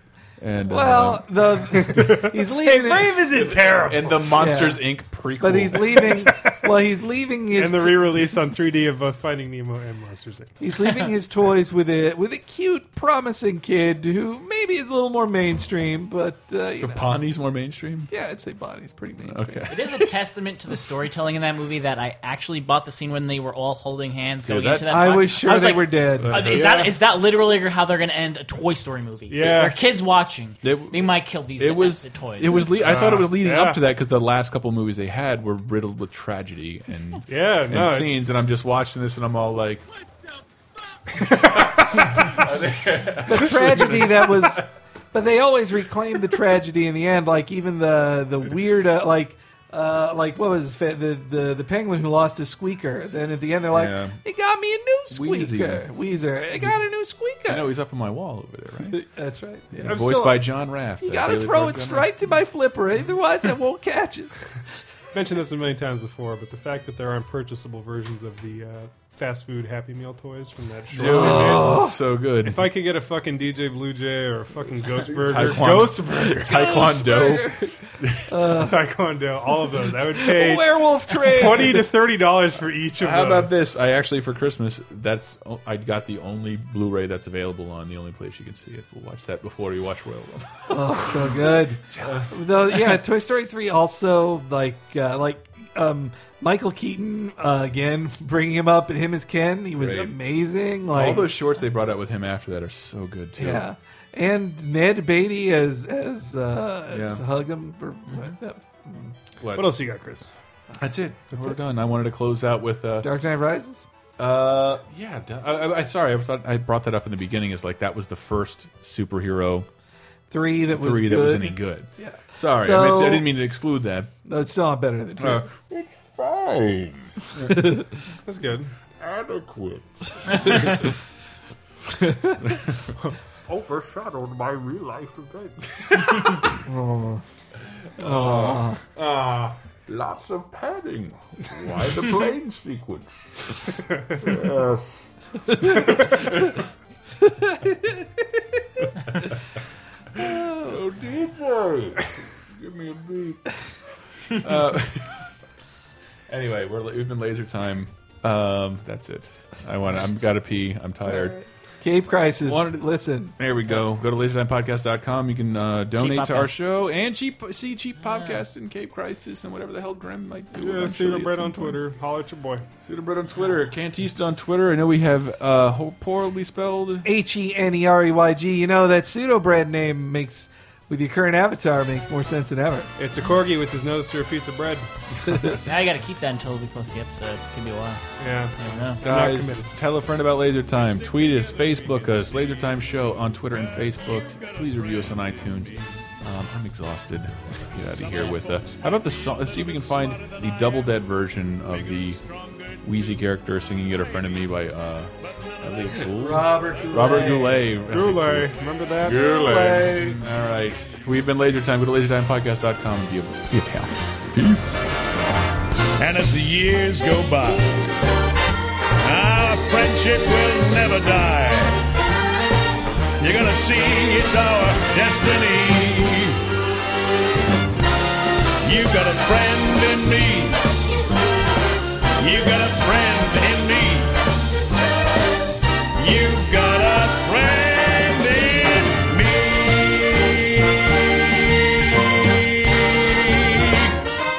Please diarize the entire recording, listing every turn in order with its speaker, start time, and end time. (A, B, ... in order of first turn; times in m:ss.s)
0:00.4-0:01.6 A
0:00.7-0:03.3 B
0:01.8-0:04.4 C
0:03.3-0:06.1 A
0:04.4-0:08.3 B
0:07.5-0:10.5 C
0:10.6-0:17.1 B
0:16.8-0:18.1 A
0:18.1-0:19.9 B
0:19.3-0:20.0 A
0:19.7-0:33.1 D
0:24.4-0:24.9 A
0:24.9-0:26.5 B
0:26.2-0:26.8 A
0:26.5-0:26.9 C
0:29.3-0:29.8 C
0:30.6-0:39.8 A
0:32.7-0:33.8 C
0:37.3-0:38.3 C
0:41.6-0:44.6 A
0:43.2-0:57.7 B
0:53.7-0:54.2 A
0:55.1-0:55.8 A
0:57.5-0:59.0 A
0:58.9-1:00.0 B
0:59.7-1:02.1 A
0:59.8-1:00.4 C
1:01.0-1:04.3 B
1:05.1-1:11.8 C
1:10.9-1:12.7 A
1:11.0-1:12.0 B
1:12.4-1:16.8 C
1:15.1-1:18.3 A
1:16.4-1:17.7 B
1:18.3-1:18.9 B
1:18.6-1:20.6 C
1:19.8-1:21.9 B
1:21.2-1:23.6 C
1:23.0-1:31.1 A
1:30.7-1:41.3 B
1:32.0-1:32.4 A
1:39.7-1:40.1 A
1:40.9-1:43.6 A
1:43.4-1:49.0 B
1:46.9-1:47.2 A
1:49.4-1:49.8 A
1:49.5-1:50.3 C
1:50.8-1:53.1 A
1:53.0-1:53.8 B
1:54.2-1:59.7 A
2:00.3-2:03.4 B
2:00.7-2:04.1 A
2:04.2-2:05.5 B
2:05.2-2:07.7 A
2:07.5-2:07.8 B
2:08.2-2:08.7 C
2:09.0-2:09.8 A
2:13.5-2:15.5 E
2:13.5-2:14.5 A
2:15.9-2:16.4 A
2:16.6-2:17.2 B
2:18.0-2:21.1 A
2:18.0-2:18.8 B
2:21.7-2:23.0 A
2:24.3-2:24.8 A
2:25.8-2:26.4 A
2:30.2-2:32.0 A
2:32.6-2:33.4 A
2:34.4-2:35.3 A
2:36.3-2:41.4 A
2:41.8-2:43.3 B
2:42.5-2:42.8 A
2:43.4-2:51.8 A
2:46.0-2:46.5 D
2:50.5-2:52.6 C
2:52.8-2:57.1 A
2:57.0-3:02.9 B
3:03.0-3:04.9 C
3:05.6-3:08.0 D
3:08.2-3:09.7 C
3:08.6-3:09.0 D
3:09.0-3:22.2 A
3:15.3-3:15.8 E
3:18.0-3:18.7 E
3:22.1-3:22.6 E
3:22.8-3:28.5 A
3:25.4-3:26.1 E
3:26.1-3:27.7 B
3:27.9-3:29.4 C
3:29.0-3:34.0 A
3:29.3-3:30.0 E
3:29.4-3:30.2 B
3:34.3-3:34.7 E
3:36.0-3:38.0 E
3:39.0-3:41.9 E
3:43.2-3:46.4 E
3:48.6-3:51.0 E
3:52.2-3:54.2 E
3:56.0-4:03.8 E